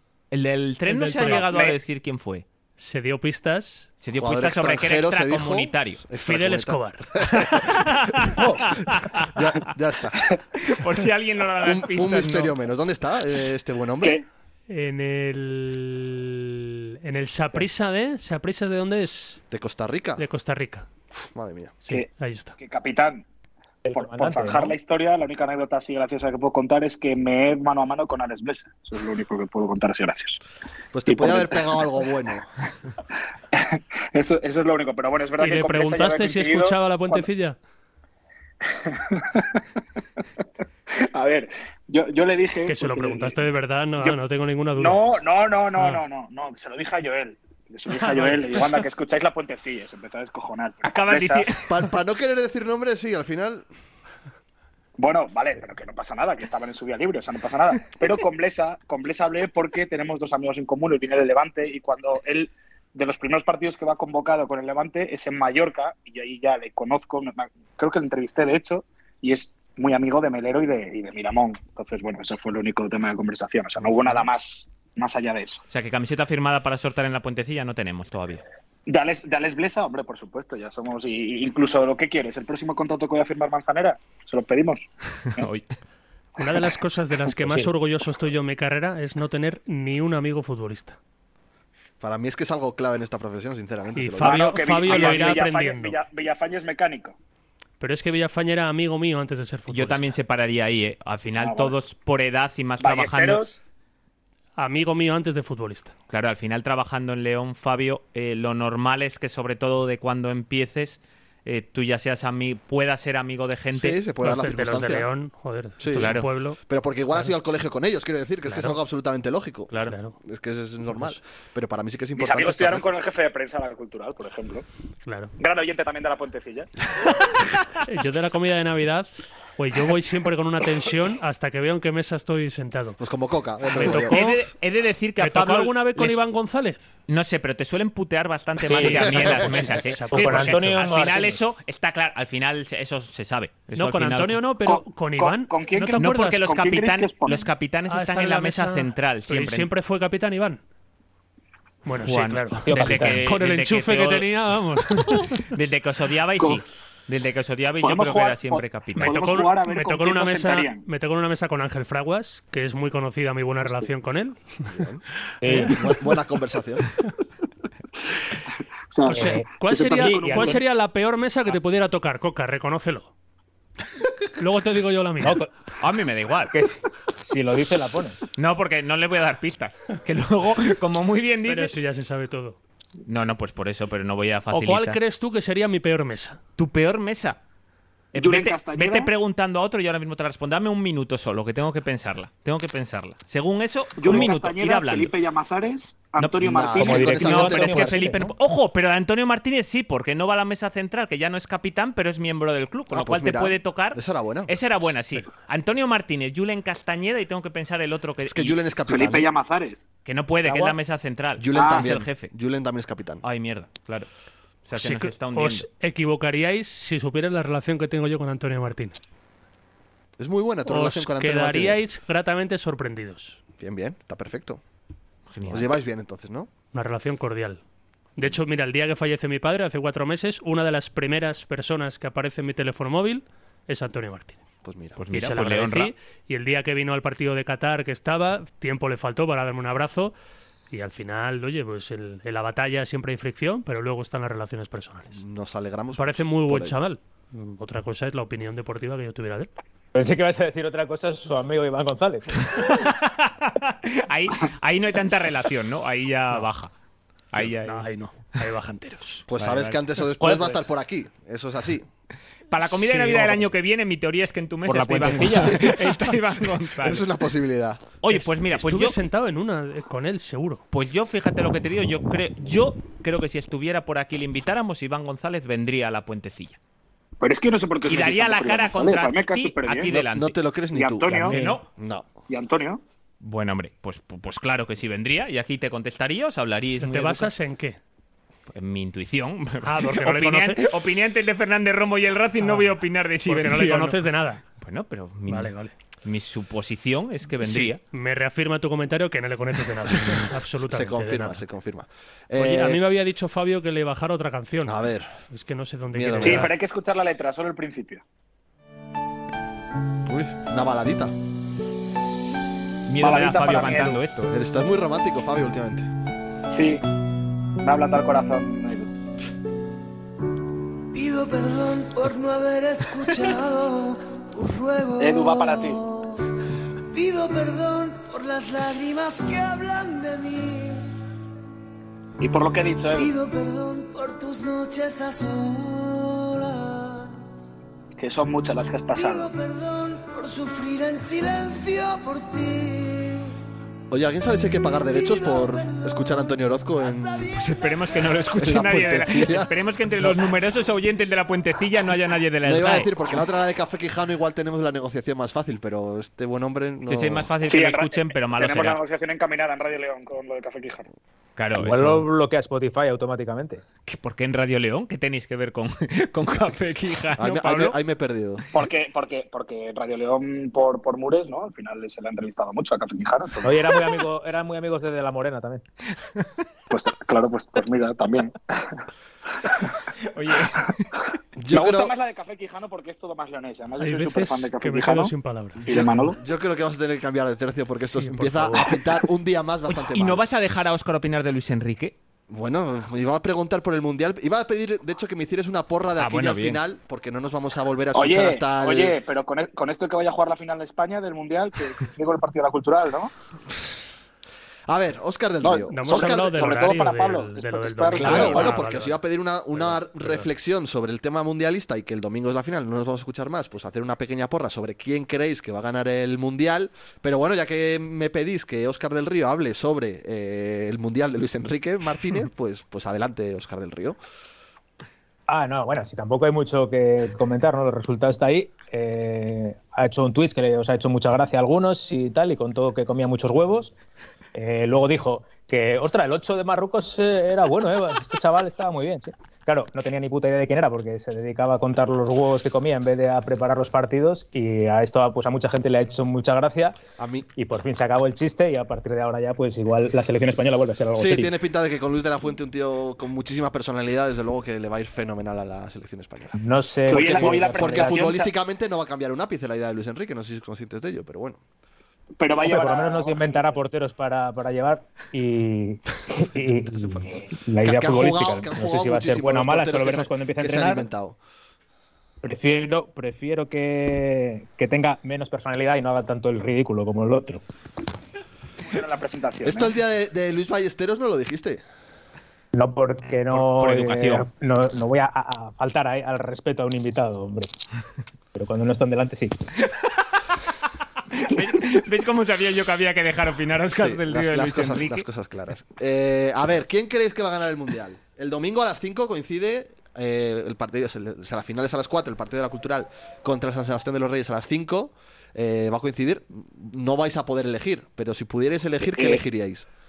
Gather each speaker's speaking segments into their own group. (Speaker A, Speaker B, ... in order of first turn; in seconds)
Speaker A: 0.3-2.4, 4.0-6.0, 7.5-8.4, 8.9-9.3, 10.6-12.6, 50.8-51.9, 75.7-78.4, 85.4-85.7, 94.8-95.4, 99.7-103.4, 106.1-114.0, 116.0-116.3, 133.8-136.2, 137.1-144.4, 145.9-149.7, 152.0-154.3, 154.9-159.2, 175.8-176.5, 178.3-181.8, 183.1-185.0, 186.6-187.4, 188.1-195.1, 196.2-208.6, 210.0-212.3, 213.2-214.1, 214.7-215.7, 225.3-225.7, 235.0-235.9, 252.6-256.7, 257.3-257.9, 259.4-259.8, 262.5-267.1, 268.0-268.9, 270.7-276.6, 277.8-280.4, 281.2-281.6, 283.2-287.3, 288.5-294.1, 294.6-295.5, 296.0-297.8, 312.9-314.3, 347.3-352.9, 356.9-358.8, 361.4-362.1, 363.9-367.8, 380.1-380.9, 389.7-391.9, 396.0-396.6, 483.3-484.3, 491.1-495.1
Speaker B: 0.9-1.5, 2.8-3.9, 6.1-7.3, 14.7-19.4, 20.2-20.9, 21.8-22.5, 35.4-37.6, 42.7-45.0, 45.8-46.0, 47.9-48.9, 86.4-91.0, 93.9-96.0, 97.8-100.2, 104.6-105.9, 114.2-116.6, 118.5-118.8, 119.7-120.2, 120.9-121.2, 125.0-125.3, 127.8-133.0, 133.7-134.4, 135.2-136.9, 138.7-140.9, 143.7-146.4, 147.9-150.6, 151.8-155.4, 158.9-164.5, 165.4-165.8, 169.1-173.1, 174.4-175.4, 181.4-182.6, 184.5-186.4, 214.8-219.0, 220.7-223.4, 226.7-227.6, 228.2-234.4, 235.1-240.1, 240.7-245.2, 245.9-249.5, 257.6-259.2, 262.6-263.4, 264.9-265.7, 268.1-270.6, 286.8-287.8, 289.6-290.8, 292.4-292.7, 293.2-294.4, 295.3-295.7, 297.4-301.4, 302.4-304.8, 305.3-306.5, 383.8-385.8, 387.8-388.8, 405.7-409.0, 410.0-410.2
Speaker C: 1.2-1.8, 21.9-23.2, 23.9-30.4, 31.1-31.8, 33.5-37.3, 38.6-39.6, 40.9-43.5, 44.7-51.5, 55.0-75.6, 78.9-84.8, 94.2-97.1, 101.4-101.8, 102.8-103.6, 122.2-124.6, 125.4-126.7, 144.6-147.5, 157.8-160.8, 168.9-170.6, 188.1-189.1, 194.0-197.8, 208.9-209.8, 211.5-211.9, 277.2-280.0, 280.7-281.4, 282.3-282.8, 306.2-308.0, 313.0-314.0, 316.5-316.8, 317.6-318.9, 325.0-325.8, 332.2-333.1, 338.0-339.3, 357.4-360.9, 368.5-373.7, 376.7-378.8, 381.5-386.2, 397.9-403.1, 405.4-408.6, 456.9-458.3, 462.2-463.6, 478.6-479.7, 508.9-509.2
Speaker D: 4.2-7.5, 9.3-10.2, 11.6-14.2, 19.5-20.2, 21.2-21.8, 30.9-32.5, 51.7-53.6, 92.0-94.4, 113.7-115.1, 115.8-119.7, 120.2-122.9, 133.0-134.2, 164.7-165.0, 165.7-166.8, 196.4-198.2, 202.9-204.5, 208.3-209.3, 211.4-213.2, 220.2-221.8, 223.6-224.6, 225.5-226.5, 234.6-235.0, 245.1-246.8, 259.3-261.9, 265.1-265.6, 266.8-267.9, 280.1-282.1, 300.7-302.8, 304.6-305.1, 305.9-306.5, 310.1-311.1, 314.3-315.9, 343.9-347.3, 348.4-350.2, 352.4-357.3, 367.2-368.4, 381.4-381.9, 385.6-390.2, 392.3-398.9, 404.7-406.6, 407.9-424.0, 447.0-447.3, 450.9-456.4, 456.9-461.4, 467.6-471.2, 479.4-481.6, 493.7-509.6
Speaker E: 23.8-24.8, 138.7-139.3, 140.1-141.4, 152.7-153.2, 165.4-165.8, 169.1-170.6, 175.2-175.5, 176.5-178.2, 196.7-198.3, 210.4-210.8, 249.9-252.4, 260.2-260.6, 264.7-265.5, 361.6-363.6, 373.4-375.6, 425.3-433.7, 434.3-446.8, 447.4-451.3, 456.4-458.1, 462.4-470.9, 472.2-477.4, 482.5-487.5, 488.3-489.4
Speaker F: 320.9-326.2, 326.9-330.9, 332.9-337.1, 338.9-343.3, 344.9-346.2, 346.7-348.5